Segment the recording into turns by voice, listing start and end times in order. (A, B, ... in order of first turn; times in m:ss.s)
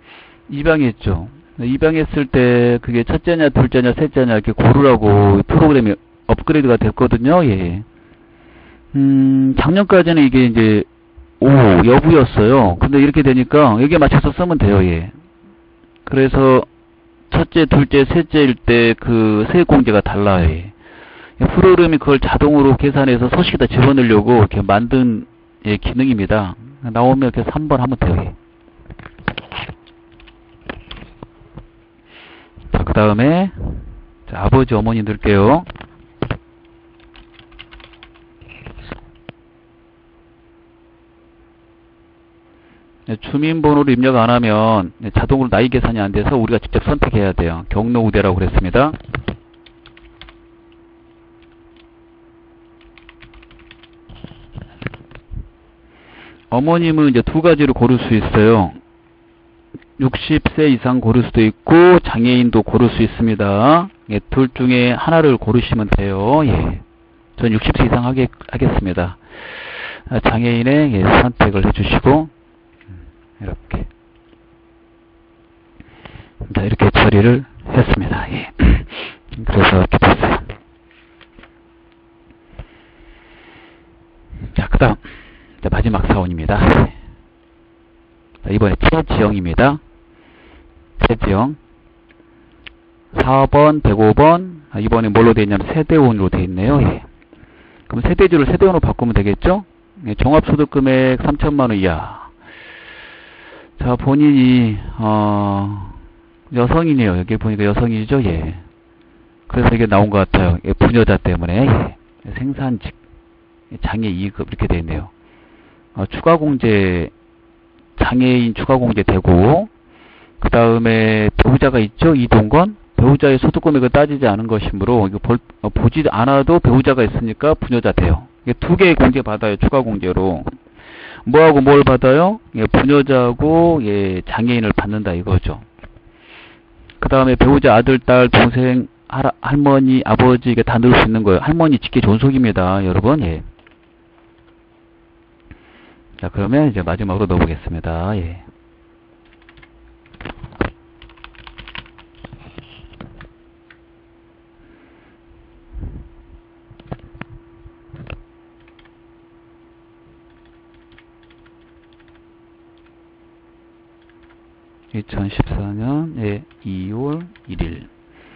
0:00.5-0:07.8 A
0:08.9-0:10.9 A
0:11.4-0:15.1 A
0:16.0-0:16.7 A
0:17.3-0:20.7 A
0:21.4-0:28.4 A
0:32.7-0:35.7 A
0:43.1-0:49.0 A
0:56.5-0:58.8 A
1:00.0-1:06.8 A
1:07.4-1:09.2 A
1:10.1-1:12.3 A
1:13.4-1:13.9 A
1:16.5-1:20.5 A
1:24.5-1:25.0 A
1:25.6-1:27.0 A
1:28.4-1:29.8 A
1:31.0-1:31.6 A
1:33.1-1:37.0 A
1:37.9-1:42.3 A
1:43.8-1:46.0 A
1:46.5-1:48.6 A
1:49.5-1:53.0 A
1:53.7-1:55.1 A
1:55.9-1:57.1 A
1:58.0-1:59.7 A
2:00.4-2:10.5 A
2:11.2-2:15.6 A
2:17.0-2:23.4 A
2:26.2-2:28.4 A
2:44.9-2:47.9 A